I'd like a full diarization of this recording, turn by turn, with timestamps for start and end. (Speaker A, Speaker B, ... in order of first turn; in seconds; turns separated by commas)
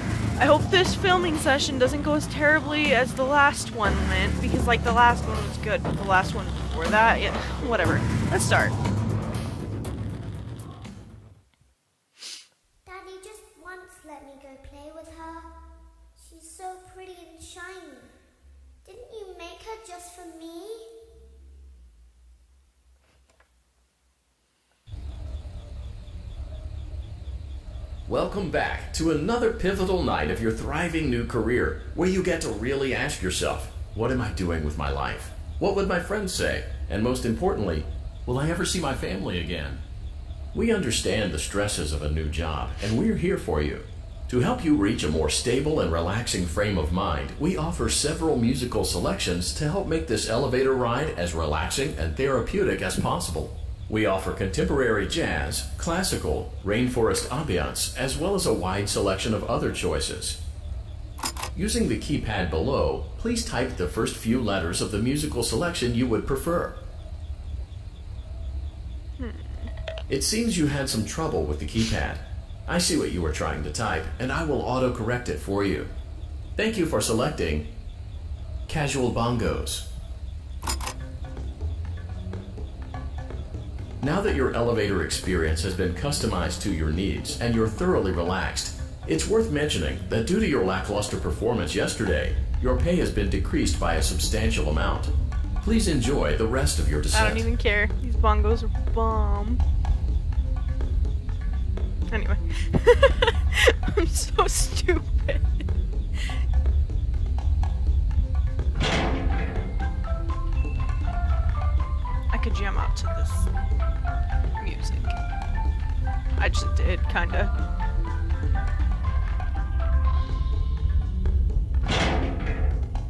Speaker A: 0.4-8.7, Speaker B: 12.8-15.5, Speaker B: 16.1-18.1, Speaker B: 18.8-20.9, Speaker C: 28.1-39.8, Speaker C: 40.5-60.4, Speaker C: 61.5-66.8, Speaker A: 69.2-69.7, Speaker C: 70.1-75.9, Speaker C: 76.5-77.7, Speaker C: 78.7-79.8, Speaker C: 84.0-97.4, Speaker A: 97.1-99.6, Speaker A: 102.1-105.6, Speaker A: 112.3-113.5, Speaker A: 114.6-115.2, Speaker A: 116.4-117.5